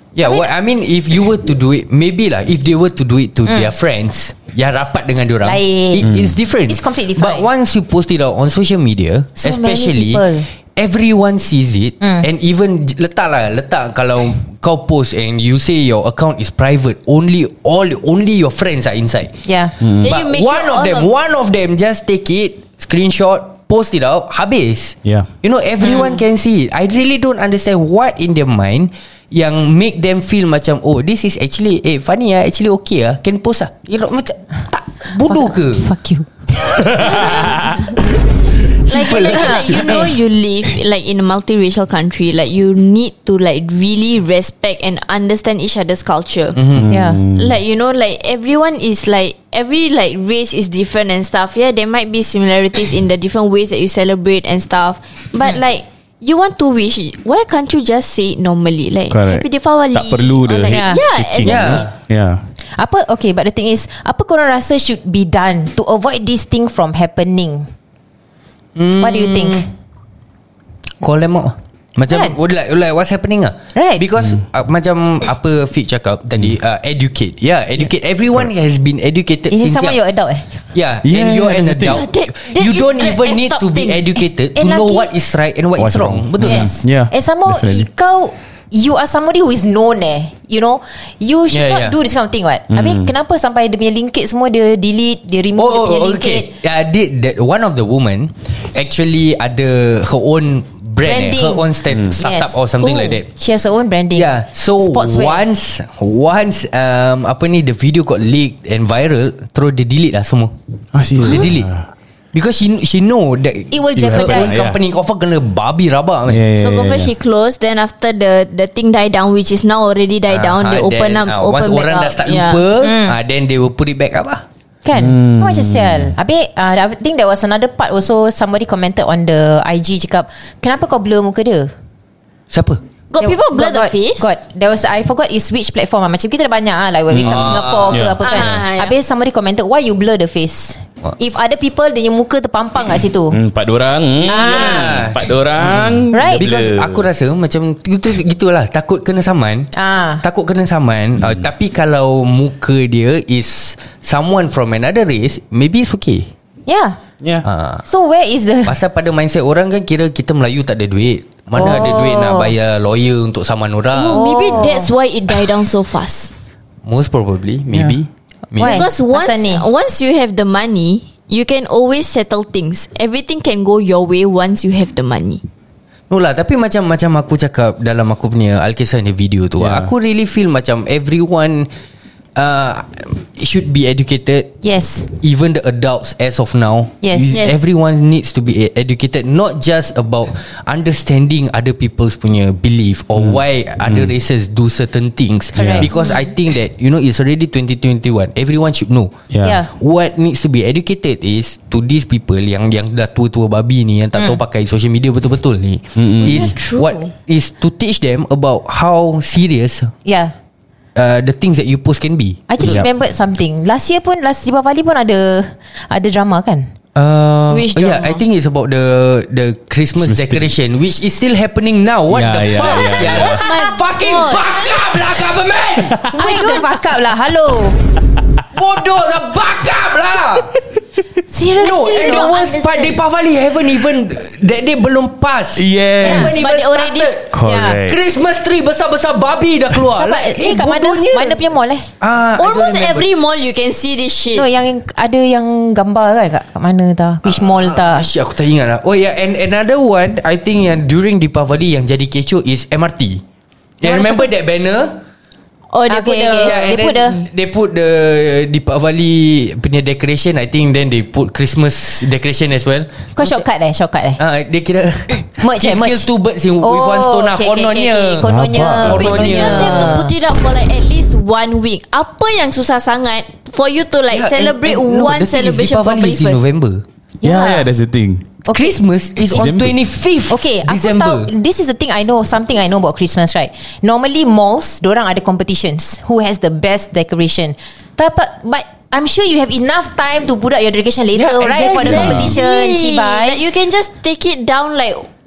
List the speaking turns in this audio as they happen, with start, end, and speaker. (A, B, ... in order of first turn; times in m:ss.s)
0:00.2-0:19.4 A
0:00.2-0:00.5 B
0:03.5-0:03.7 B
0:05.4-0:06.1 B
0:06.0-0:06.4 C
0:06.7-0:07.5 B
0:09.4-0:10.5 B
0:12.0-0:12.3 B
0:19.4-0:19.7 B
0:19.8-0:20.2 C
0:20.0-0:35.9 A
0:20.0-0:21.1 D
0:25.8-0:26.1 B
0:35.3-0:36.3 B
0:36.7-0:37.5 A
0:36.8-0:37.9 C
0:38.8-0:46.6 D
0:38.9-0:40.2 A
0:39.1-0:40.0 B
0:46.5-0:46.9 A
0:46.8-0:47.6 C
0:46.9-0:47.2 B
0:47.4-1:01.9 D
0:59.1-1:02.5 C
1:00.7-1:01.0 B
1:01.4-1:01.9 A
1:02.7-1:07.7 B
1:08.8-1:09.7 A
1:09.0-1:09.7 B
1:11.0-1:20.0 A
1:12.1-1:12.4 B
1:13.8-1:14.0 B
1:19.5-1:20.6 B
1:20.7-1:26.7 A
1:21.0-1:22.0 C
1:21.8-1:24.1 D
1:24.6-1:25.1 B
1:25.8-1:27.9 C
1:26.4-1:36.5 B
1:31.5-1:32.0 A
1:32.7-1:33.1 C
1:35.6-1:43.3 A
1:41.0-1:45.4 B
1:44.2-1:50.5 A
1:50.9-1:51.9 C
1:51.2-1:51.7 A
1:52.3-1:56.4 A
1:53.7-1:54.6 B
1:54.0-1:54.8 C
1:56.3-1:57.1 C
1:56.6-2:02.6 D
2:00.3-2:04.4 A
2:02.8-2:03.2 B
2:04.8-2:11.7 B
2:05.0-2:06.2 C
2:12.5-2:12.8 A
2:13.1-2:14.3 D
2:13.2-2:23.4 B
2:17.1-2:18.6 C
2:17.2-2:18.1 A
2:18.2-2:19.0 D
2:23.3-2:27.0 C
2:24.2-2:36.3 A
2:24.3-2:25.0 B
2:26.1-2:26.4 B
2:29.7-2:30.2 B
2:36.7-2:37.0 B
2:37.4-2:37.8 A
2:37.9-2:38.8 B
2:38.6-2:44.2 A
2:41.5-2:42.5 B
2:43.9-2:46.3 D
2:44.1-2:44.9 B
2:46.8-2:48.9 A
2:47.7-2:48.0 C
2:48.6-2:49.7 B
2:48.6-2:55.4 D
2:56.1-3:01.7 A
2:59.6-2:59.9 C
3:02.4-3:04.5 A
3:04.6-3:05.1 B
3:05.2-3:19.1 A
3:07.0-3:07.4 B
3:07.3-3:07.7 D
3:13.2-3:14.1 C
3:15.6-3:15.9 B
3:15.6-3:15.9 C
3:16.0-3:16.2 D
3:19.3-3:19.6 C
3:19.4-3:19.7 B
3:19.7-3:29.9 A
3:26.0-3:26.5 C
3:26.2-3:27.1 D
3:30.0-3:30.3 B
3:31.0-3:32.8 A
3:32.5-3:36.7 B
3:32.6-3:32.9 C
3:37.0-3:46.1 A
3:37.5-3:38.2 D
3:40.0-3:40.5 C
3:42.1-3:43.4 C
3:42.7-3:44.5 D
3:45.8-3:46.1 C
3:46.1-3:47.8 B
3:46.2-3:46.6 D
3:48.5-3:50.5 A
3:51.3-3:52.4 B
3:51.6-4:01.4 A
3:51.6-3:53.0 D
3:55.6-3:56.4 C
3:56.0-3:56.3 B
3:56.0-3:57.1 D
3:57.3-3:58.0 C
3:57.4-3:57.8 B
3:59.9-4:01.9 B
4:02.0-4:03.1 A
4:02.4-4:04.5 D
4:04.3-4:08.1 B
4:07.2-4:13.2 A
4:13.8-4:15.0 A
4:13.8-4:14.3 B
4:15.7-4:17.1 D
4:15.9-4:17.2 B
4:16.4-4:23.4 A
4:23.2-4:24.2 B
4:24.2-4:30.0 A
4:25.4-4:26.1 B
4:26.6-4:30.1 B
4:28.2-4:29.2 C
4:28.9-4:36.4 D
4:34.1-4:36.8 A
4:37.2-4:37.7 B
4:37.2-4:38.3 C
4:38.5-4:38.8 B
4:38.5-4:41.3 A
4:39.3-4:39.8 C
4:40.3-4:53.4 B
4:51.1-4:52.4 A
4:51.5-4:55.1 D
4:51.9-4:52.3 C